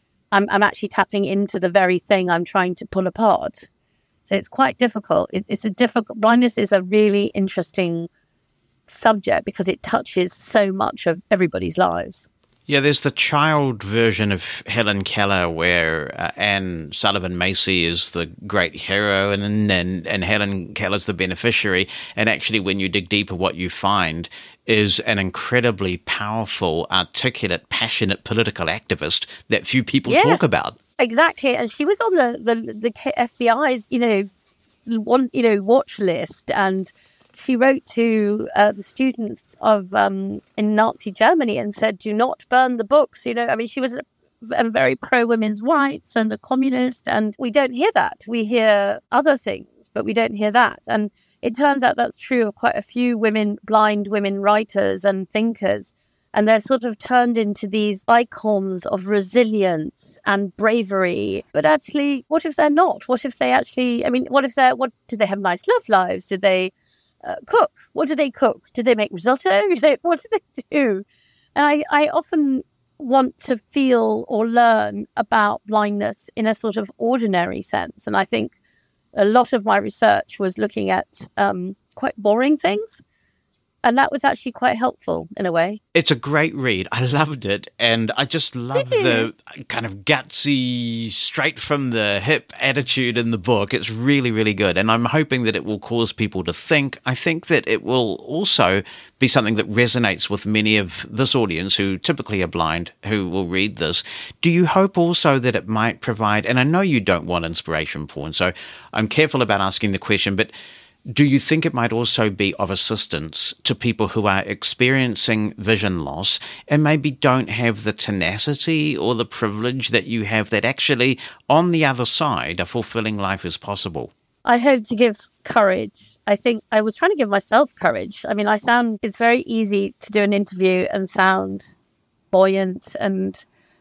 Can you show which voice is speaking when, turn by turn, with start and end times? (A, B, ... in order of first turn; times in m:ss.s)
0:00.3-0:03.7 A
0:04.3-0:08.1 A
0:08.9-0:12.3 A
0:12.7-0:30.8 B
0:30.1-0:30.4 A
0:31.0-0:34.3 A
0:34.9-1:06.7 A
1:07.2-1:11.0 A
1:11.6-1:18.6 A
1:19.2-1:23.0 A
1:23.8-1:25.8 A
1:25.9-1:50.5 B
1:28.7-1:29.3 A
1:51.1-2:04.1 B
2:04.4-2:11.7 A
2:12.3-2:13.4 A